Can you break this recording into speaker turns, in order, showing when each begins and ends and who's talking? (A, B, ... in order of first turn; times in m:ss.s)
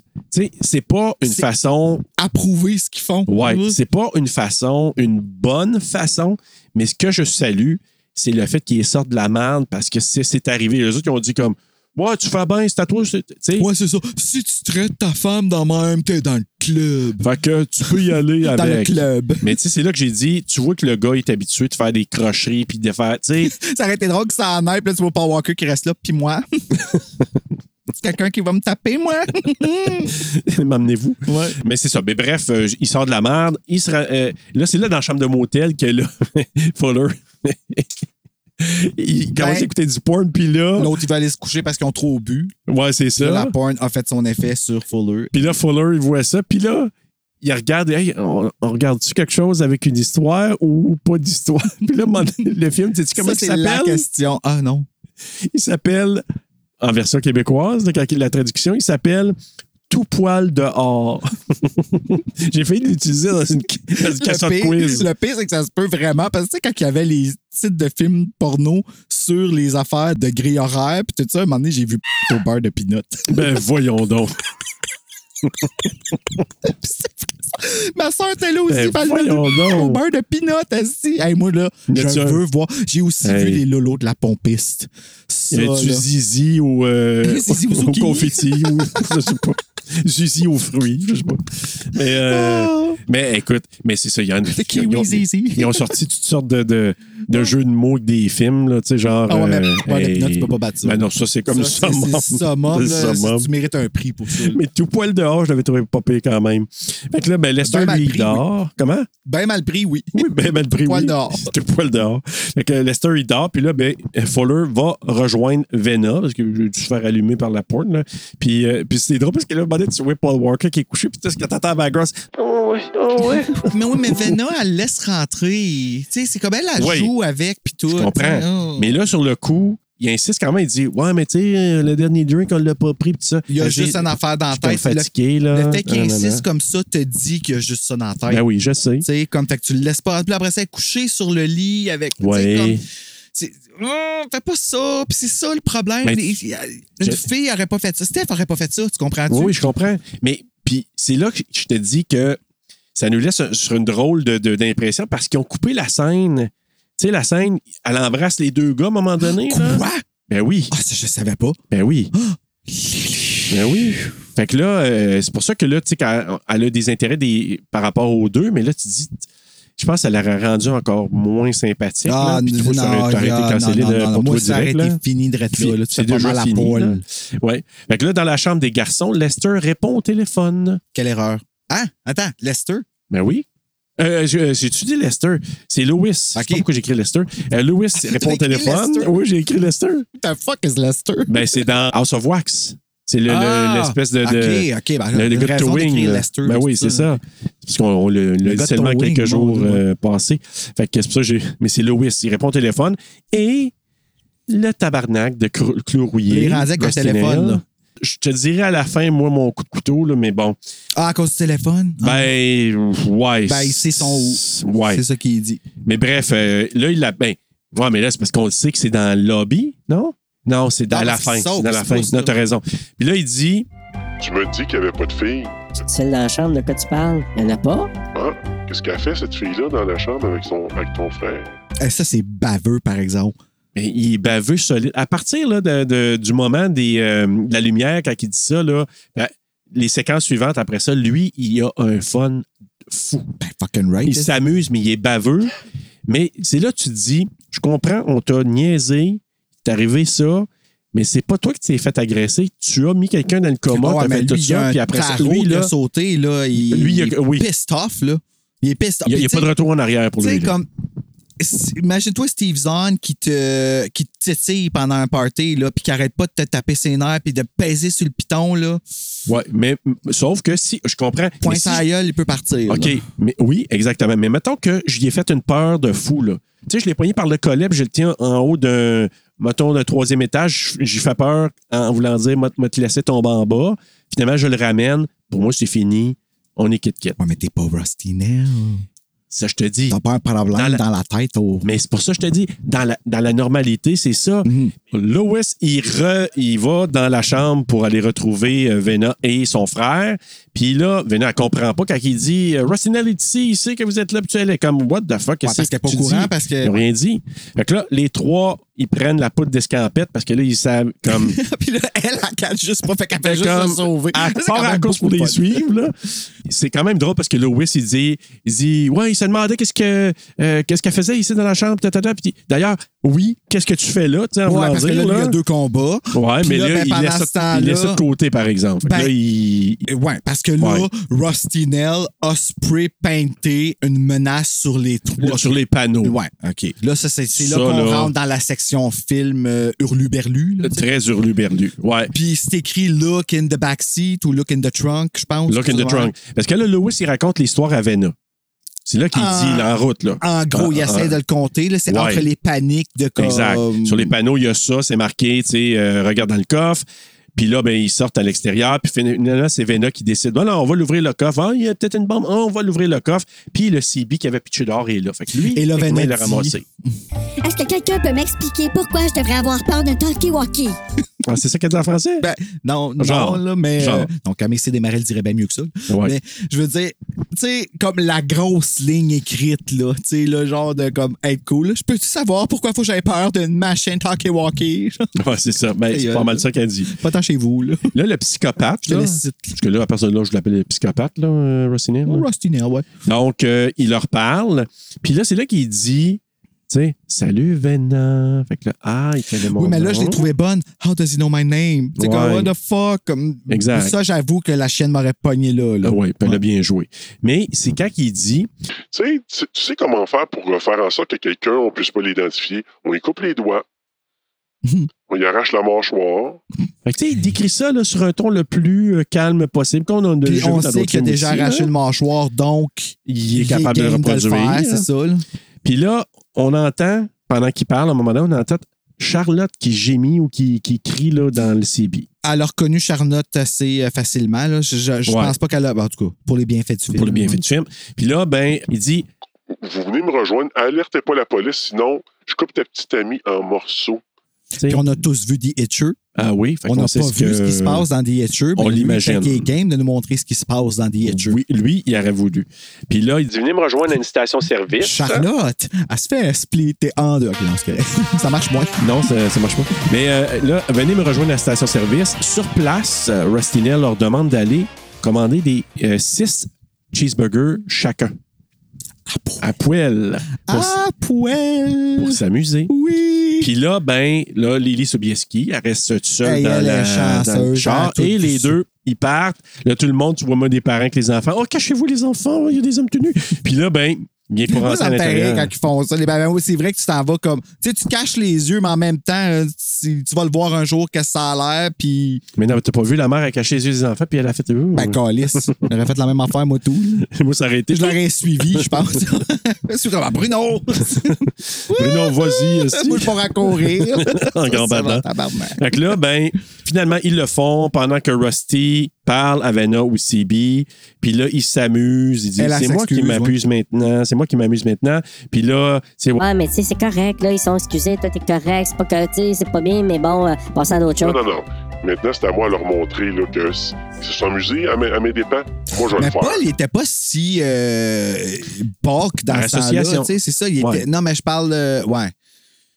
0:00.3-0:02.0 A
0:02.2-0:03.8 B
0:03.3-0:13.7 A
0:13.6-0:17.3 B
0:17.2-0:23.6 A
0:17.9-0:19.5 B
0:23.4-0:26.5 B
0:27.9-0:30.2 B
0:30.1-0:38.1 A
0:31.3-0:31.6 B
0:38.6-0:40.9 A
0:39.4-0:39.7 B
0:40.8-0:42.5 B
0:42.7-0:43.5 A
0:43.2-0:45.3 B
0:45.3-0:46.9 A
0:47.4-0:54.0 A
0:53.2-0:54.9 B
0:55.5-0:56.2 A
0:56.8-0:59.4 A
0:59.9-1:05.1 A
1:03.9-1:13.6 B
1:13.3-1:14.3 A
1:16.6-1:26.1 B
1:18.7-1:20.0 A
1:21.9-1:22.4 A
1:23.2-1:23.6 A
1:25.5-1:43.5 A
1:27.2-1:29.2 B
1:32.0-1:33.0 B
1:34.5-1:35.9 B
1:39.3-1:44.6 B
1:44.4-1:49.1 A
1:47.6-1:48.4 B
1:49.2-1:51.5 B
1:50.1-2:04.3 A
2:03.2-2:08.9 B
2:06.8-2:07.1 A
2:07.9-2:16.4 A
2:13.5-2:18.4 B
2:18.3-2:19.1 A
2:19.0-2:22.8 B
2:22.2-2:22.8 A
2:23.3-2:29.7 B
2:29.3-2:32.4 A
2:33.0-2:40.7 A
2:39.2-2:40.0 B
2:40.7-2:41.6 B
2:41.7-2:42.1 A
2:42.1-2:44.0 B
2:43.5-2:49.2 A
2:49.8-2:55.0 A
2:52.1-2:57.0 B
2:55.6-3:00.8 A
3:00.9-3:02.9 B
3:03.1-3:03.4 A
3:04.0-3:10.1 A
3:06.4-3:06.6 B
3:08.0-3:09.2 B
3:10.2-3:11.6 B
3:11.3-3:23.7 A
3:13.3-3:17.2 B
3:18.4-3:19.8 B
3:24.5-3:30.6 A
3:26.3-3:27.6 B
3:31.0-3:32.3 B
3:32.0-3:35.0 A
3:33.5-3:35.6 B
3:35.8-3:43.7 A
3:40.9-3:42.3 B
3:44.2-3:45.6 C
3:45.9-3:47.9 D
3:48.1-3:51.6 C
3:51.8-3:53.4 B
3:53.8-4:03.3 A
4:03.4-4:04.4 B
4:04.0-4:05.5 A
4:06.1-4:15.7 A
4:13.7-4:19.5 B
4:16.7-4:17.5 A
4:19.0-4:20.5 A
4:20.2-4:20.7 B
4:21.4-4:28.8 B
4:29.3-4:31.8 A
4:31.4-4:33.0 B
4:32.7-4:47.2 A
4:47.2-4:48.8 B
4:49.3-4:50.0 A
4:49.9-4:51.7 B
4:50.6-4:50.8 A
4:51.6-5:11.4 A
4:54.4-4:54.7 B
5:05.4-5:06.8 B
5:11.1-5:15.6 B
5:13.2-5:25.4 A
5:24.5-5:28.0 B
5:26.1-5:29.8 A
5:28.8-5:29.1 B
5:29.9-5:40.9 B
5:30.6-5:30.9 A
5:35.2-5:36.2 A
5:37.3-5:38.1 A
5:40.6-5:42.1 A
5:42.1-5:46.1 B
5:45.5-5:48.1 A
5:48.9-5:51.2 A
5:49.1-5:54.1 B
5:51.9-5:52.3 A
5:53.2-6:06.6 A
6:05.4-6:06.6 B
6:07.4-6:10.8 E
6:11.2-6:12.3 A
6:12.2-6:25.1 B
6:13.0-6:14.1 A
6:15.9-6:16.2 A
6:25.2-6:26.9 A
6:25.9-6:27.9 B
6:27.9-6:32.3 A
6:28.8-6:29.6 B
6:32.1-6:32.9 B
6:33.1-6:40.3 A
6:39.6-6:46.4 B
6:42.0-6:42.5 A
6:43.5-6:43.9 A
6:45.8-6:48.5 A
6:48.9-6:53.6 C
6:54.6-6:54.9 B
6:55.1-6:56.4 C
6:56.9-7:01.7 A
7:00.2-7:05.2 B
7:03.1-7:04.9 A
7:05.6-7:12.1 A
7:12.2-7:17.4 B
7:15.1-7:15.4 A
7:17.0-7:19.1 A
7:19.5-7:24.0 C
7:24.6-7:24.8 A
7:24.7-7:26.0 B
7:26.2-7:27.9 A
7:26.7-7:31.4 B
7:28.6-7:29.5 A
7:31.0-7:35.3 A
7:34.8-7:38.8 B
7:38.8-7:48.2 A
7:49.1-7:49.5 B
7:49.4-7:50.8 A
7:50.5-7:53.5 B
7:52.0-7:52.7 A
7:53.4-8:05.5 A
7:56.2-7:58.6 B
8:04.5-8:12.2 B
8:12.4-8:15.7 A
8:14.7-8:17.1 B
8:17.1-8:18.0 A
8:17.7-8:25.9 B
8:20.9-8:25.0 A
8:25.6-8:36.2 A
8:32.4-8:33.4 B
8:36.2-8:41.2 D
8:41.0-8:46.4 C
8:45.9-8:52.1 B
8:49.3-8:50.9 A